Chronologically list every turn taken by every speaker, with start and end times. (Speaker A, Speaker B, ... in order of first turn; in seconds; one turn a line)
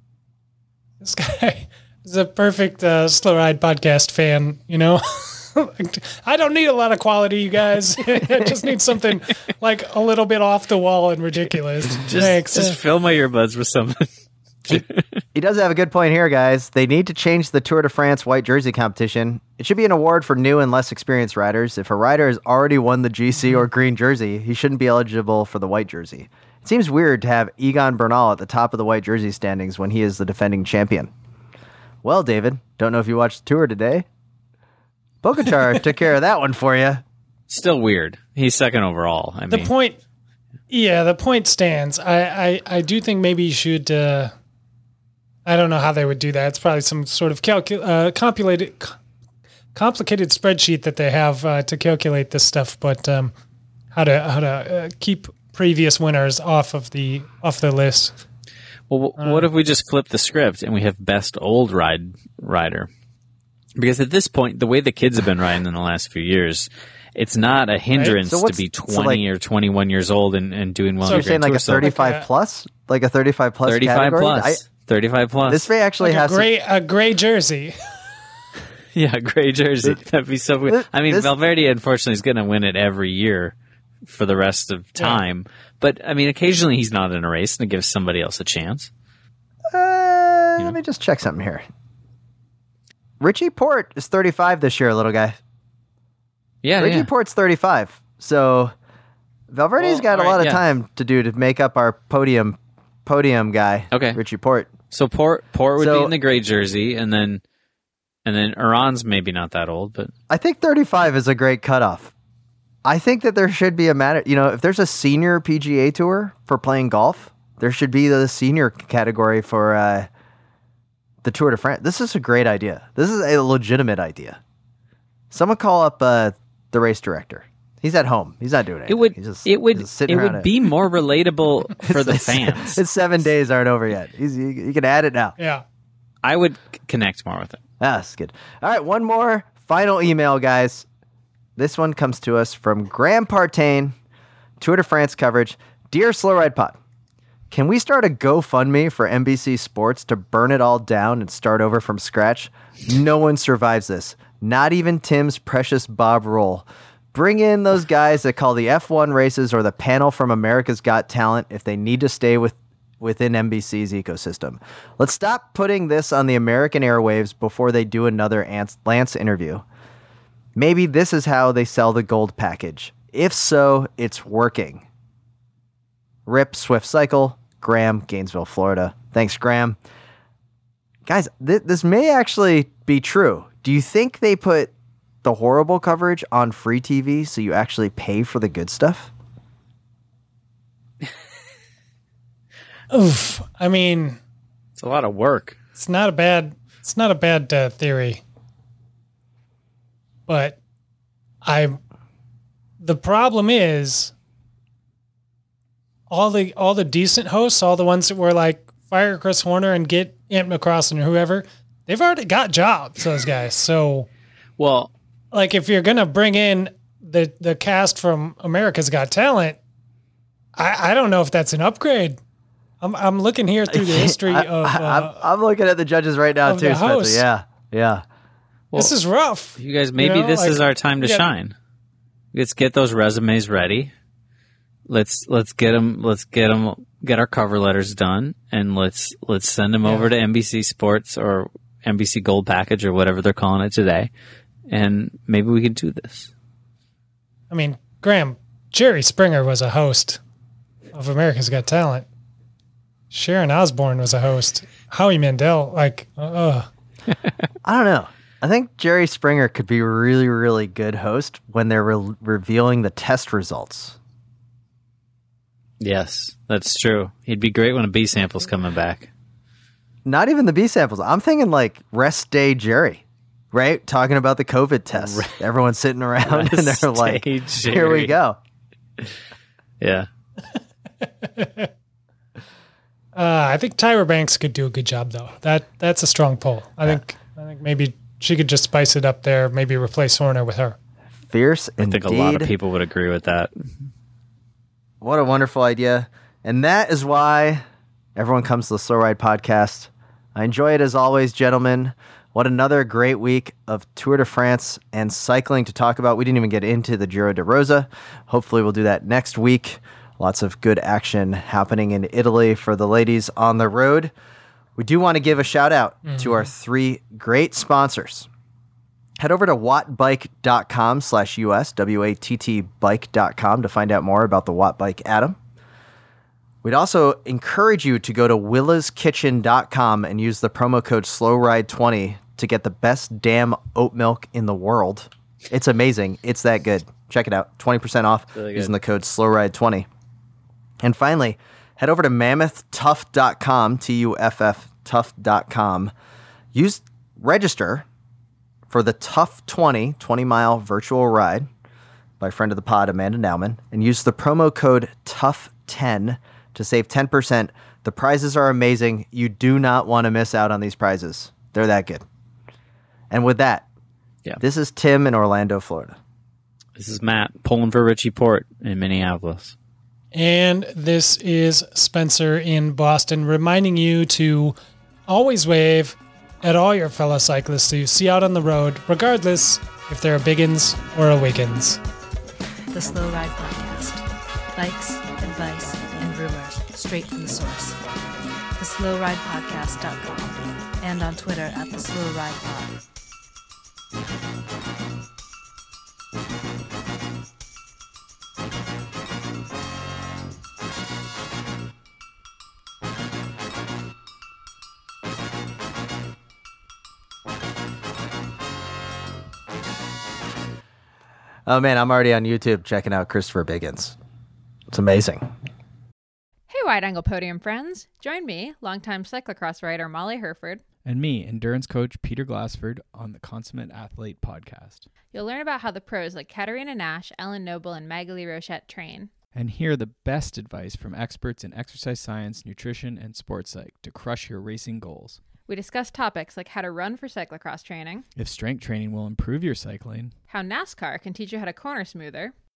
Speaker A: 1.0-12.8
Speaker B: 12.0-14.1
Speaker B: 14.7-15.2
Speaker C: 15.3-31.1
Speaker C: 32.0-34.0
Speaker C: 35.2-37.0
Speaker B: 37.5-39.7
Speaker A: 39.5-40.0
Speaker A: 40.7-44.3
Speaker A: 45.5-49.0
Speaker A: 49.7-53.3
Speaker A: 53.9-58.1
Speaker B: 58.9-62.9
Speaker A: 59.2-59.5
Speaker B: 63.8-71.9
Speaker C: 68.2-69.2
Speaker C: 71.0-74.6
Speaker A: 71.0-72.3
Speaker B: 73.6-75.7
Speaker C: 75.5-76.5
Speaker A: 76.0-78.0
Speaker B: 78.9-88.9
Speaker C: 80.7-81.3
Speaker C: 89.7-91.6
Speaker C: 93.2-95.4
Speaker B: 96.6-97.1
Speaker C: 96.8-98.7
Speaker C: 99.5-104.7
Speaker B: 99.8-100.6
Speaker B: 103.9-104.2
Speaker B: 104.9-107.4
Speaker C: 105.8-106.1
Speaker B: 108.2-110.1
Speaker C: 110.3-112.1
Speaker C: 112.8-120.1
Speaker C: 121.2-124.4
Speaker C: 125.3-130.5
Speaker B: 128.9-132.8
Speaker C: 131.8-135.3
Speaker A: 135.4-135.6
Speaker B: 136.2-137.6
Speaker C: 137.8-140.8
Speaker C: 141.6-143.9
Speaker C: 144.6-146.8
Speaker C: 147.5-169.6
Speaker C: 170.6-174.8
Speaker C: 176.2-179.8
Speaker C: 181.1-184.7
Speaker C: 185.2-189.1
Speaker A: 192.9-194.2
Speaker B: 194.8-195.6
Speaker A: 195.8-198.2
Speaker A: 200.3-200.6
Speaker A: 201.4-201.8
Speaker A: 202.8-204.1
Speaker A: 206.1-214.1
Speaker B: 214.6-214.9
Speaker A: 215.3-219.6
Speaker A: 220.6-222.2
Speaker A: 222.8-225.2
Speaker C: 223.7-228.0
Speaker A: 226.4-227.2
Speaker A: 228.7-231.2
Speaker B: 229.6-231.5
Speaker B: 232.3-233.9
Speaker B: 234.9-244.1
Speaker B: 244.7-246.3
Speaker A: 247.5-250.2
Speaker A: 250.9-252.1
Speaker A: 253.1-256.7
Speaker C: 257.6-264.0
Speaker B: 265.8-269.1
Speaker C: 270.1-278.4
Speaker B: 274.9-275.4
Speaker B: 276.2-278.1
Speaker B: 279.8-280.1
Speaker A: 281.0-281.7
Speaker A: 283.1-290.8
Speaker C: 291.3-292.5
Speaker B: 291.8-293.5
Speaker C: 295.0-297.6
Speaker C: 298.1-314.1
Speaker C: 314.8-318.3
Speaker A: 316.0-316.5
Speaker C: 319.2-325.4
Speaker C: 326.6-339.9
Speaker B: 338.4-338.7
Speaker C: 340.8-345.9
Speaker C: 346.5-347.9
Speaker C: 348.7-351.5
Speaker C: 352.2-362.0
Speaker C: 363.1-363.6
Speaker C: 364.4-366.0
Speaker B: 366.8-369.5
Speaker A: 370.1-374.5
Speaker A: 375.1-381.8
Speaker D: 382.7-387.8
Speaker D: 388.6-392.8
Speaker C: 411.4-414.0
Speaker C: 414.7-415.2
Speaker E: 416.5-420.6
Speaker F: 420.8-424.9
Speaker E: 425.1-429.1
Speaker F: 429.3-435.2
Speaker E: 435.4-438.1
Speaker F: 438.1-440.2
Speaker E: 440.3-442.3